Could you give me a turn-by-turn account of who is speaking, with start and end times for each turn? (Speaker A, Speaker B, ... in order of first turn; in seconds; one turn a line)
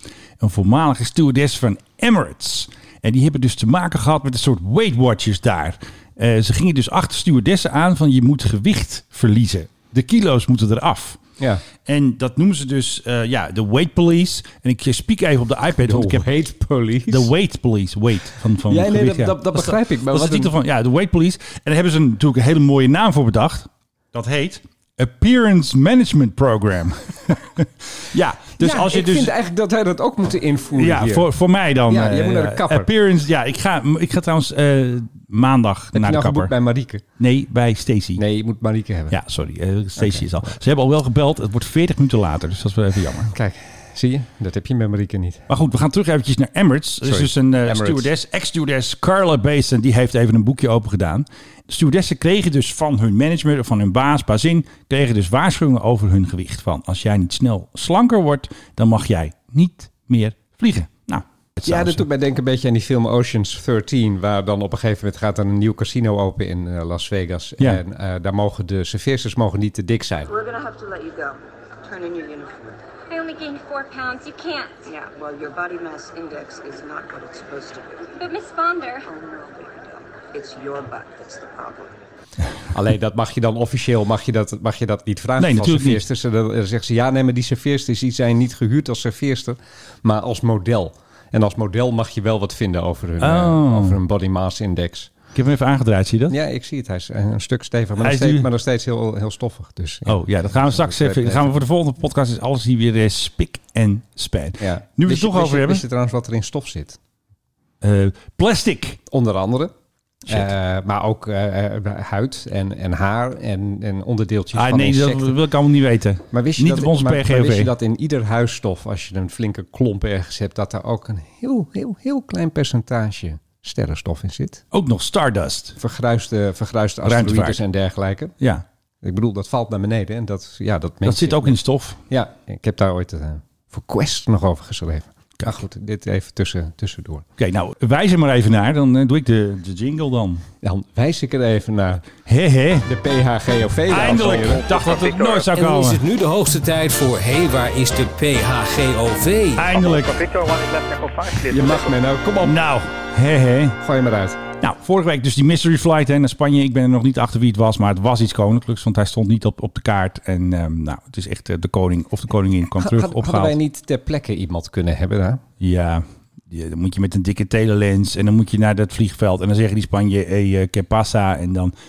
Speaker A: 0.4-11.2
Speaker A: 11.8-16.3
Speaker B: 15.8-17.3
Speaker A: 17.1-29.3
Speaker B: 18.7-20.5
Speaker B: 28.6-31.3
Speaker A: 30.8-36.5
Speaker B: 31.9-32.9
Speaker B: 35.9-37.0
Speaker A: 37.2-38.2
Speaker B: 38.2-39.2
Speaker A: 39.1-43.3
Speaker B: 40.0-40.5
Speaker B: 43.3-45.5
Speaker A: 45.5-62.1
Speaker B: 47.0-48.1
Speaker B: 61.6-70.3
Speaker C: 70.4-72.6
Speaker D: 73.1-74.9
Speaker C: 74.9-78.1
Speaker D: 78.2-79.1
Speaker C: 79.1-81.9
Speaker B: 82.7-95.1
Speaker A: 85.4-86.0
Speaker A: 93.2-94.0
Speaker A: 95.3-96.4
Speaker B: 96.3-101.6
Speaker A: 98.0-98.5
Speaker A: 100.1-105.8
Speaker B: 104.6-107.0
Speaker A: 107.8-109.0
Speaker B: 109.1-109.7
Speaker B: 110.3-115.4
Speaker A: 114.5-117.7
Speaker B: 116.3-124.6
Speaker A: 124.7-125.8
Speaker B: 125.8-128.3
Speaker A: 127.0-127.6
Speaker A: 128.4-128.7
Speaker B: 129.0-131.6
Speaker A: 131.1-132.0
Speaker B: 132.1-137.2
Speaker A: 137.4-140.4
Speaker B: 140.6-142.1
Speaker A: 142.2-142.9
Speaker B: 142.8-144.8
Speaker A: 143.9-146.0
Speaker E: 144.7-149.8
Speaker A: 149.6-150.3
Speaker B: 151.4-152.6
Speaker A: 152.4-153.8
Speaker B: 153.8-154.4
Speaker A: 154.6-163.6
Speaker B: 162.8-165.4
Speaker A: 165.6-171.7